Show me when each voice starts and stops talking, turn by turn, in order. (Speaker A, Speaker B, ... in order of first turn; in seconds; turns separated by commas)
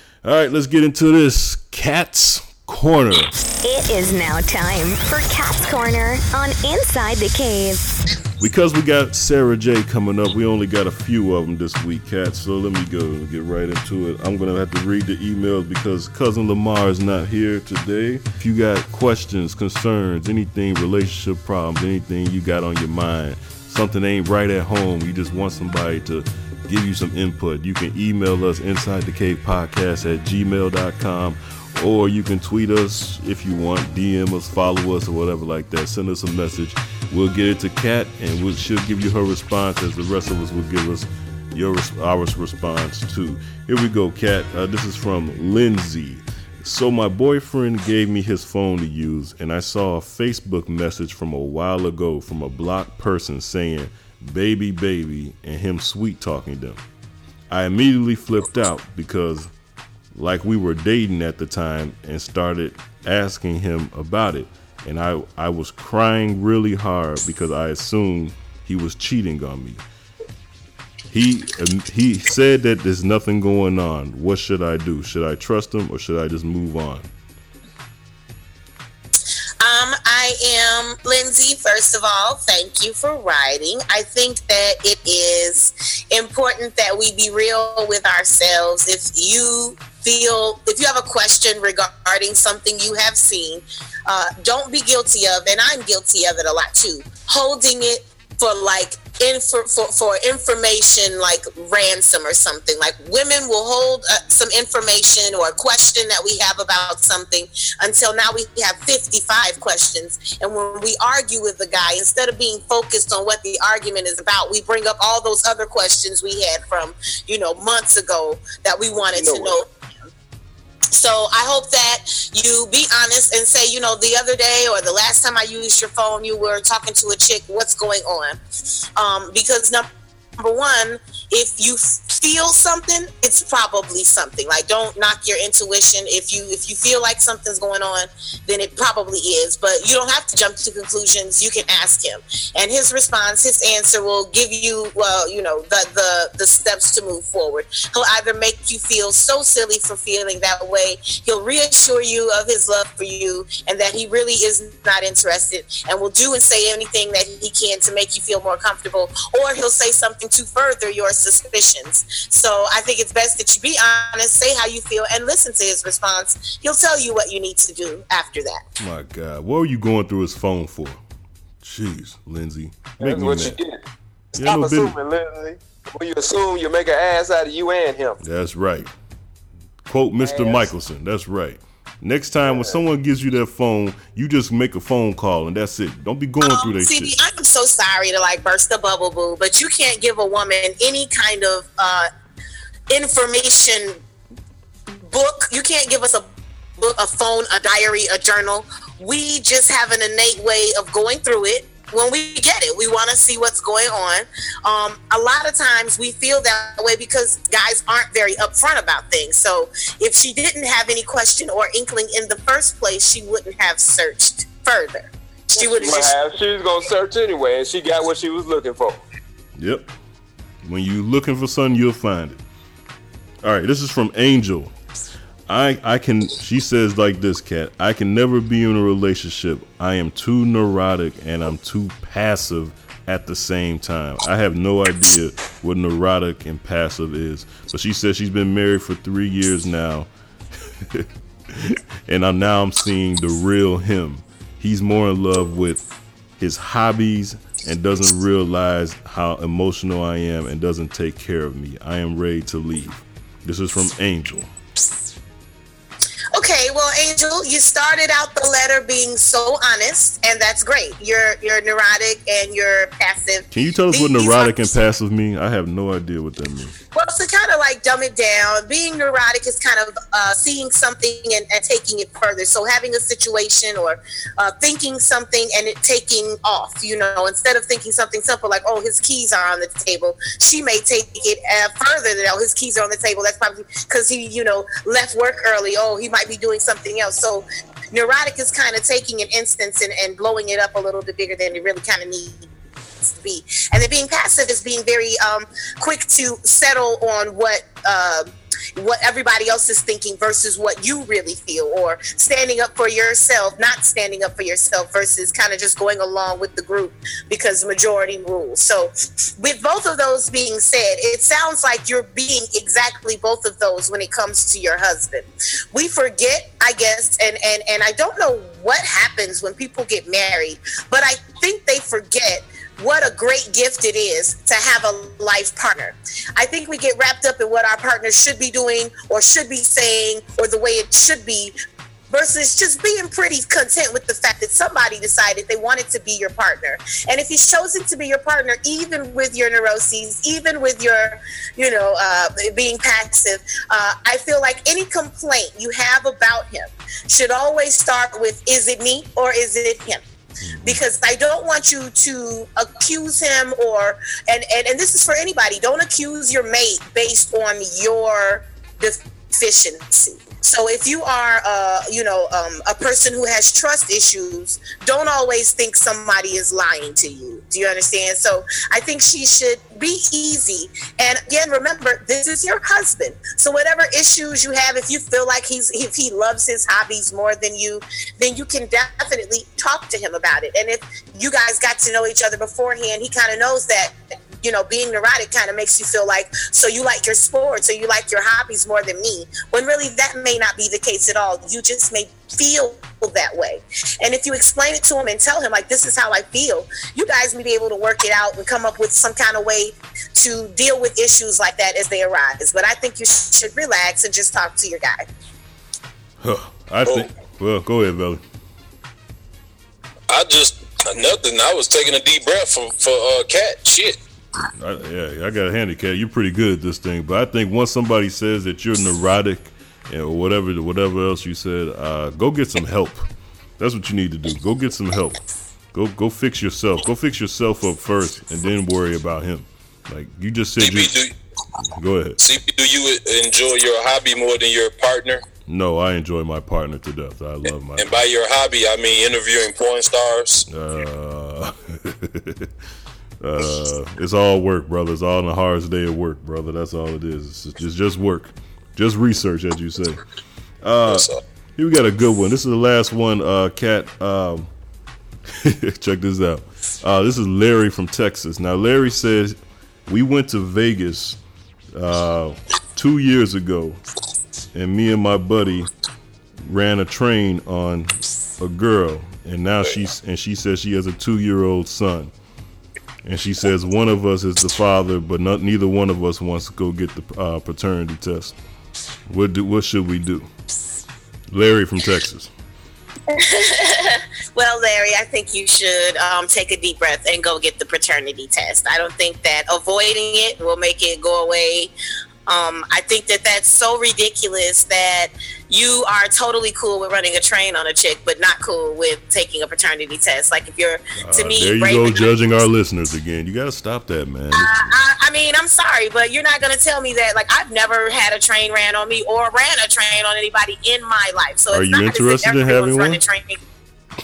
Speaker A: 0.2-3.4, Speaker B: 3.6-7.9, Speaker A: 8.4-56.8, Speaker A: 57.5-59.5, Speaker A: 60.1-69.8, Speaker A: 71.1-77.1, Speaker C: 79.6-119.7, Speaker D: 119.1-119.6, Speaker C: 120.9-128.4, Speaker C: 129.0-129.9, Speaker C: 130.4-168.6, Speaker A: 168.8-171.0, Speaker A: 171.6-173.6, Speaker D: 173.0-173.8, Speaker A: 174.3-175.0, Speaker D: 174.4-178.2, Speaker A: 178.2-178.9, Speaker A: 179.9-187.2, Speaker D: 180.2-180.7, Speaker D: 182.5-182.8, Speaker C: 186.4-192.1, Speaker C: 192.9-194.0, Speaker C: 195.0-216.2, Speaker D: 215.6-219.0, Speaker A: 219.6-219.9, Speaker A: 220.6-222.4, Speaker A: 223.4-224.7, Speaker A: 225.5-240.1, Speaker A: 240.8-245.8, Speaker A: 246.4-254.5, Speaker C: 256.3-264.8, Speaker A: 263.5-266.8, Speaker C: 266.9-292.5, Speaker C: 293.1-331.6, Speaker C: 332.1-350.0, Speaker A: 350.4-350.8, Speaker C: 350.6-405.1, Speaker A: 406.2-408.2, Speaker E: 410.1-414.0, Speaker A: 414.6-423.1, Speaker A: 423.6-425.2, Speaker A: 425.7-431.0, Speaker E: 430.6-431.1, Speaker A: 431.6-432.2, Speaker E: 432.2-435.2, Speaker A: 435.5-437.9, Speaker E: 437.8-440.4, Speaker A: 440.5-442.5, Speaker A: 443.2-450.0, Speaker A: 450.6-454.5, Speaker E: 450.9-451.2, Speaker A: 455.3-461.2, Speaker A: 461.7-463.8, Speaker A: 464.5-465.7, Speaker A: 466.4-472.1, Speaker A: 473.0-478.4, Speaker A: 479.1-480.3, Speaker A: 481.3-482.3, Speaker C: 483.1-491.7, Speaker C: 492.3-502.1, Speaker A: 501.0-504.7, Speaker C: 504.3-513.4, Speaker A: 511.5-513.0